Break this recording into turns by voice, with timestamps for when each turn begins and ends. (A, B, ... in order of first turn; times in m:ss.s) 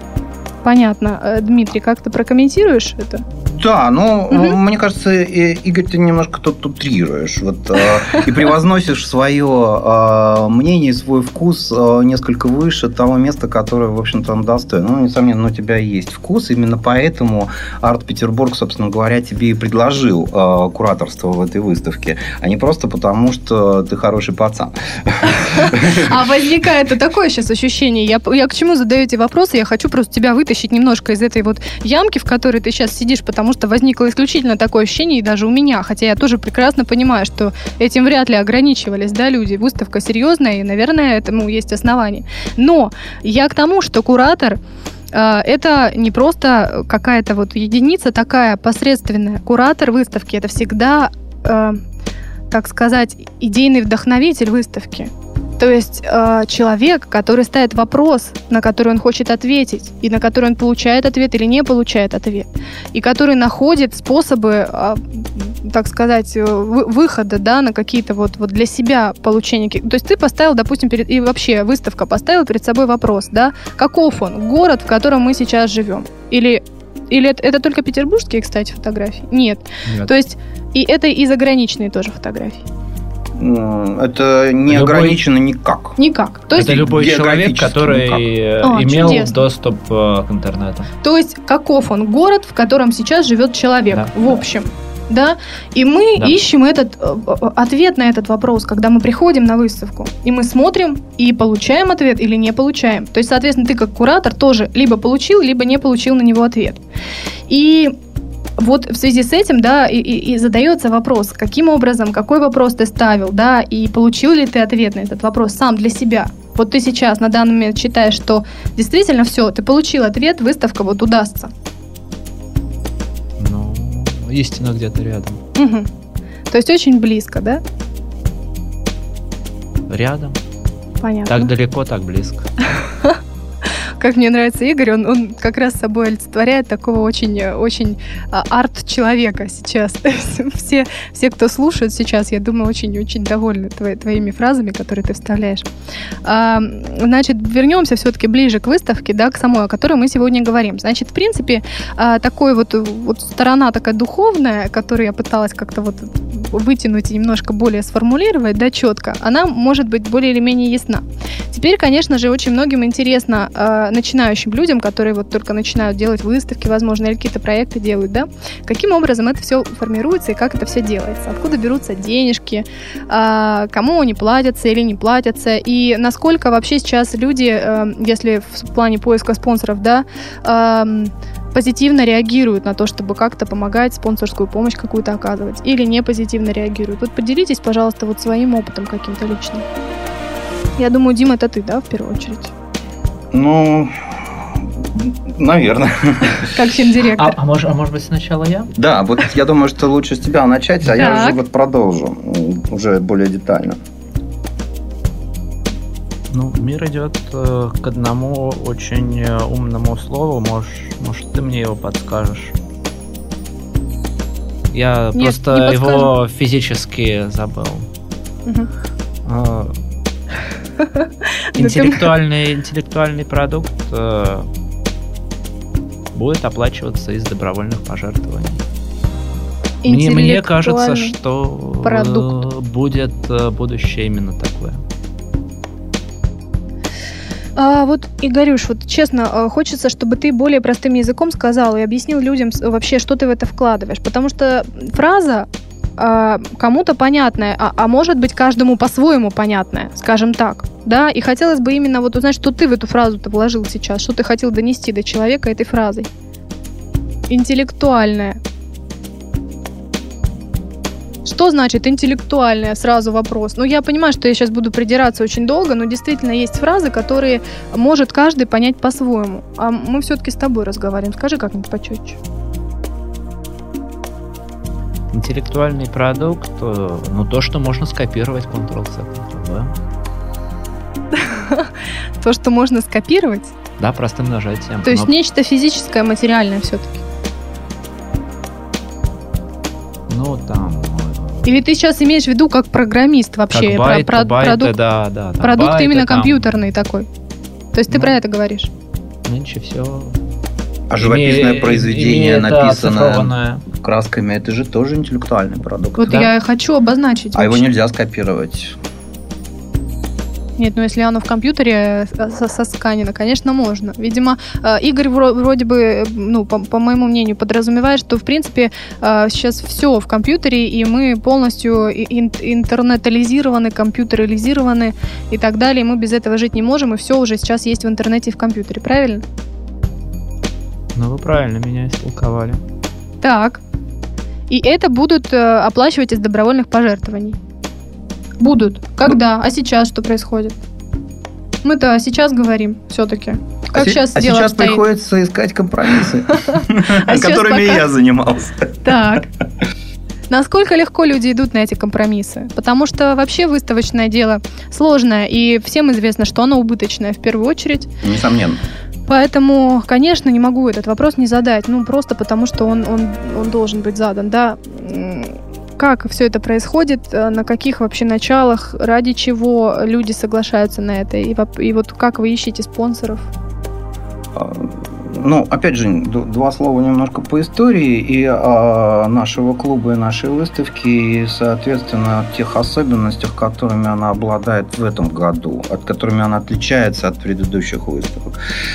0:00.6-0:03.2 A
0:03.4-0:26.2 B
0:04.3-0:04.6 A
0:25.4-0:44.6 A
0:45.1-0:51.8 A
0:52.5-1:22.6 A
1:23.4-1:26.0 B
1:24.7-1:25.2 C
1:26.0-1:26.8 A
1:26.5-1:28.2 B
1:26.6-1:30.9 C
1:28.6-1:29.4 A
1:31.0-1:46.8 A
1:33.9-1:34.4 C
1:47.5-1:47.9 A
1:48.6-2:01.5 A
2:03.4-2:05.4 C
2:05.6-2:05.9 A
2:06.5-2:07.6 A
2:09.9-2:10.4 C
2:11.0-2:11.5 A
2:11.3-2:12.5 C
2:12.8-2:13.2 A
2:14.0-2:25.6 A
2:26.2-3:09.6 A
3:10.8-3:12.5 A
3:13.3-3:14.1 B
3:14.8-3:16.5 B
3:16.5-3:17.4 A
3:17.2-3:18.7 C
3:18.8-3:23.8 B
3:20.9-3:21.4 A
3:26.3-3:32.5 C
3:34.7-3:37.9 C
3:35.1-3:36.1 A
3:39.2-3:39.7 C
3:40.8-3:42.1 A
3:41.6-3:44.5 C
3:46.1-3:48.6 C
3:49.8-3:51.1 A
3:49.9-3:54.8 C
3:51.8-3:52.4 A
3:57.6-4:16.1 A
4:17.3-4:18.4 A
4:21.2-4:32.2 A
4:35.1-4:39.7 C
4:41.1-4:41.7 A
4:42.2-4:43.6 A
4:43.8-4:45.1 C
4:44.8-4:47.0 A
4:50.1-4:51.6 C
4:51.4-4:54.7 A
4:53.5-4:56.6 C
4:55.4-4:57.1 A
4:57.7-4:58.7 A
4:57.9-4:58.2 C
4:59.3-5:00.2 C
5:00.9-5:06.3 B
5:01.0-5:03.6 C
5:06.0-5:07.6 A
5:07.3-5:08.8 B
5:10.6-5:29.2 A
5:31.0-5:32.6 C
5:33.2-5:33.6 A
5:34.5-5:37.4 A
5:38.4-5:40.6 A
5:41.6-5:44.8 A
5:43.7-5:49.0 B
5:46.4-5:47.9 A
5:48.8-5:49.3 A
5:50.3-5:57.9 A
5:58.0-5:58.6 B
5:59.1-6:13.3 A
6:14.3-6:28.4 B